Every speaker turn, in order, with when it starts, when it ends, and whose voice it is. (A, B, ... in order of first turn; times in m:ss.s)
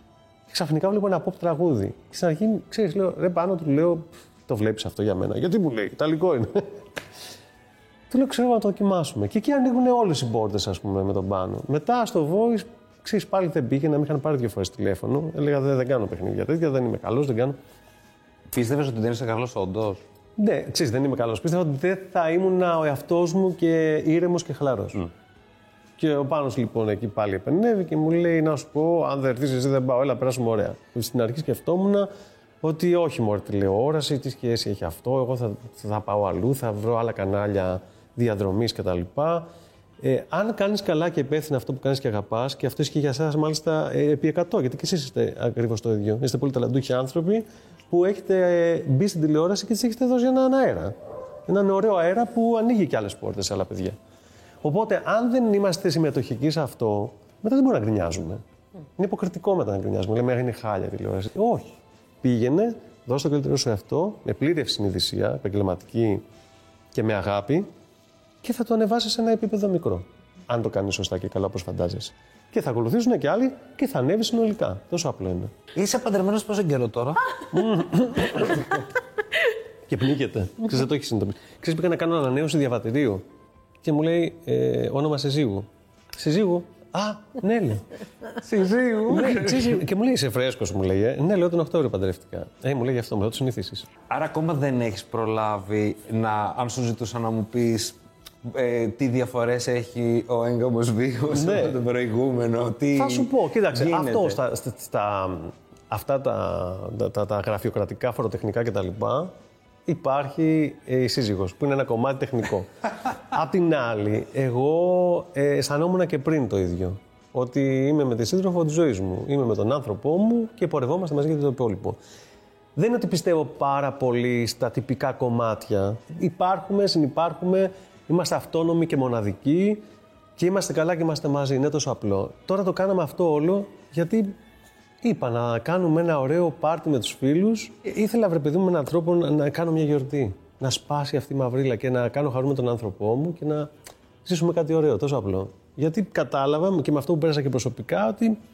0:00.5-0:06.8 A
0:08.1-0:17.6 A
0:18.5-0:20.0 B
0:20.4-0:25.1 A
0:26.0-0:32.1 A
0:32.6-0:39.5 A
0:40.0-0:50.9 A
0:51.5-0:54.0 A
0:54.6-0:58.4 A
0:59.0-1:06.2 A
1:06.9-1:07.7 A
1:08.4-1:15.5 A
1:15.8-1:17.3 B
1:17.5-1:18.8 A
1:19.9-1:23.2 A
1:23.8-1:27.8 A
1:28.4-1:29.8 B
1:29.1-1:33.9 A
1:34.1-1:44.4 B
1:41.3-1:41.8 A
1:43.0-1:49.3 A
1:49.9-1:52.7 A
1:53.3-2:02.0 A
2:02.8-2:09.8 A
2:10.4-2:14.4 A
2:15.0-2:23.7 A
2:24.2-2:28.4 A